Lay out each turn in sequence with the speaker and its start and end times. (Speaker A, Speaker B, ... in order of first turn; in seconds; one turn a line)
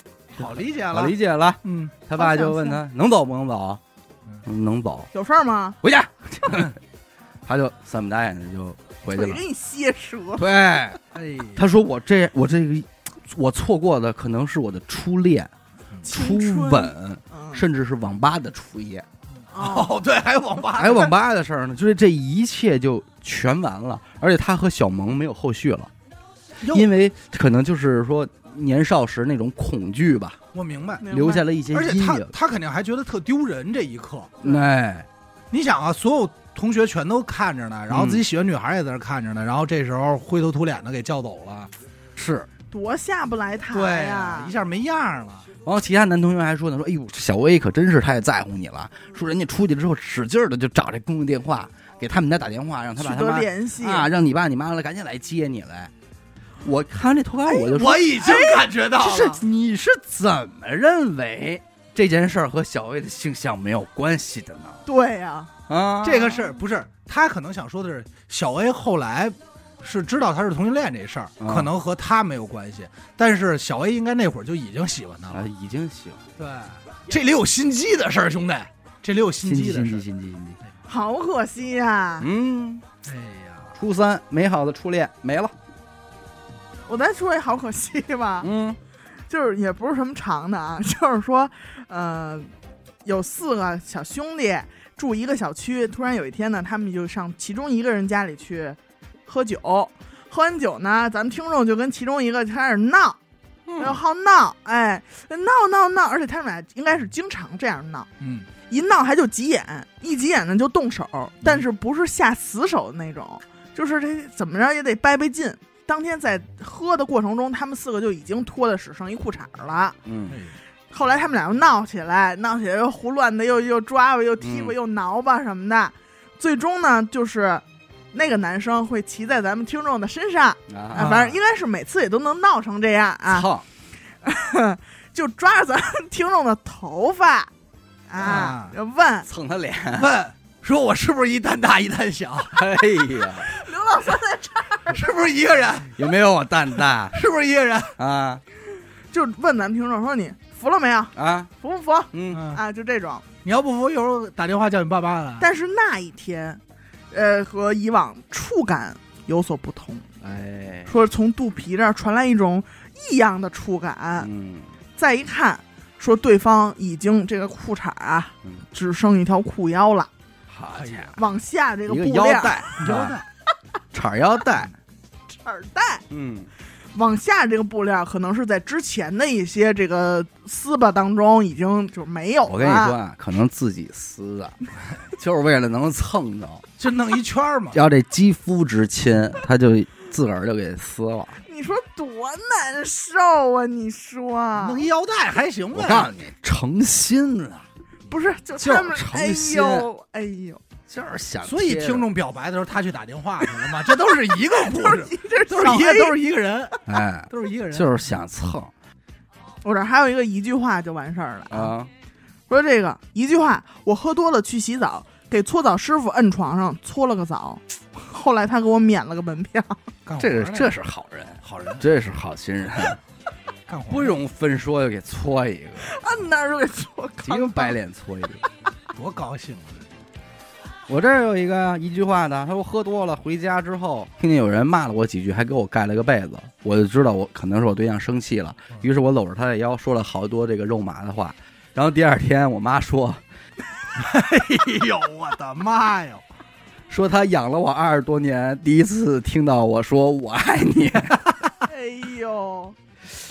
Speaker A: 0.3-1.9
Speaker B: 0.4-3.8
Speaker C: 2.1-2.8
Speaker B: 4.4-5.1
Speaker C: 5.1-5.8
Speaker B: 5.8-6.8
Speaker B: 7.5-9.4
Speaker C: 9.1-10.5
Speaker B: 10.3-11.0
Speaker A: 11.1-11.6
Speaker B: 11.5-15.5
Speaker B: 16.0-19.1
Speaker C: 16.1-17.6
Speaker A: 19.4-21.1
Speaker C: 19.5-19.9
Speaker B: 20.7-25.9
Speaker A: 26.6-26.9
Speaker B: 26.7-30.4
Speaker A: 30.5-31.1
Speaker C: 31.0-31.4
Speaker B: 31.1-32.3
Speaker A: 31.7-34.4
Speaker B: 34.4-35.1
Speaker A: 35.5-41.7
Speaker B: 37.9-38.2
Speaker B: 42.2-42.5
Speaker C: 42.7-44.5
Speaker A: 43.7-45.5
Speaker B: 45.6-55.9
Speaker C: 53.0-54.1
Speaker B: 56.6-58.2
Speaker A: 57.6-59.4
Speaker C: 58.1-58.7
Speaker B: 58.9-64.8
Speaker C: 64.8-65.5
Speaker B: 65.7-66.5
Speaker A: 66.0-75.5
Speaker B: 71.4-71.7
Speaker B: 75.3-76.2
Speaker A: 76.4-80.0
Speaker B: 79.4-80.6
Speaker C: 80.9-82.3
Speaker B: 82.2-82.8
Speaker A: 83.0-83.8
Speaker B: 83.7-85.5
Speaker C: 86.9-88.5
Speaker B: 88.4-88.8
Speaker C: 89.3-92.5
Speaker C: 93.0-103.2
Speaker C: 103.8-108.1
Speaker A: 108.2-108.5
Speaker C: 108.7-120.0
Speaker B: 120.0-120.4
Speaker A: 120.3-120.5
Speaker C: 120.9-133.5
Speaker B: 124.4-124.7
Speaker B: 130.7-131.2
Speaker A: 130.9-131.4
Speaker B: 133.3-133.6
Speaker C: 134.2-137.5
Speaker C: 138.1-139.3
Speaker A: 138.2-138.7
Speaker B: 138.2-138.5
Speaker B: 139.2-140.1
Speaker A: 139.9-142.7
Speaker B: 142.5-143.5
Speaker C: 143.4-145.0
Speaker A: 144.9-145.9
Speaker B: 145.9-147.2
Speaker A: 147.1-147.9
Speaker B: 147.9-148.4
Speaker C: 149.1-153.2
Speaker B: 151.1-151.5
Speaker B: 152.1-152.4
Speaker A: 152.3-152.6
Speaker A: 153.4-155.4
Speaker C: 155.4-156.6
Speaker C: 157.1-160.1
Speaker B: 160.2-160.9
Speaker C: 160.8-164.3
Speaker B: 164.2-164.7
Speaker C: 165.0-170.1
Speaker B: 170.5-171.2
Speaker A: 170.7-171.1
Speaker C: 171.2-172.8
Speaker B: 171.9-173.2
Speaker A: 172.8-173.2
Speaker B: 173.9-174.7
Speaker C: 175.3-176.0
Speaker B: 176.1-176.5
Speaker C: 176.9-183.0
Speaker B: 182.4-186.6
Speaker A: 186.8-187.8
Speaker B: 187.7-191.4
Speaker C: 191.4-194.8
Speaker A: 194.5-196.1
Speaker B: 195.7-197.7
Speaker C: 198.1-200.6
Speaker B: 198.6-199.9
Speaker B: 200.9-202.1
Speaker A: 201.4-208.0
Speaker C: 204.3-206.2
Speaker B: 206.8-208.7
Speaker C: 209.6-211.7
Speaker B: 211.5-211.9
Speaker C: 212.5-219.8
Speaker A: 220.1-220.7
Speaker B: 220.2-223.0
Speaker A: 221.4-221.8
Speaker A: 223.7-224.2
Speaker B: 223.9-225.9
Speaker C: 225.8-227.8
Speaker B: 227.2-228.4
Speaker A: 228.9-229.8
Speaker B: 230.9-243.2
Speaker A: 243.9-246.2
Speaker B: 246.9-251.2
Speaker A: 251.1-251.5
Speaker C: 251.7-252.8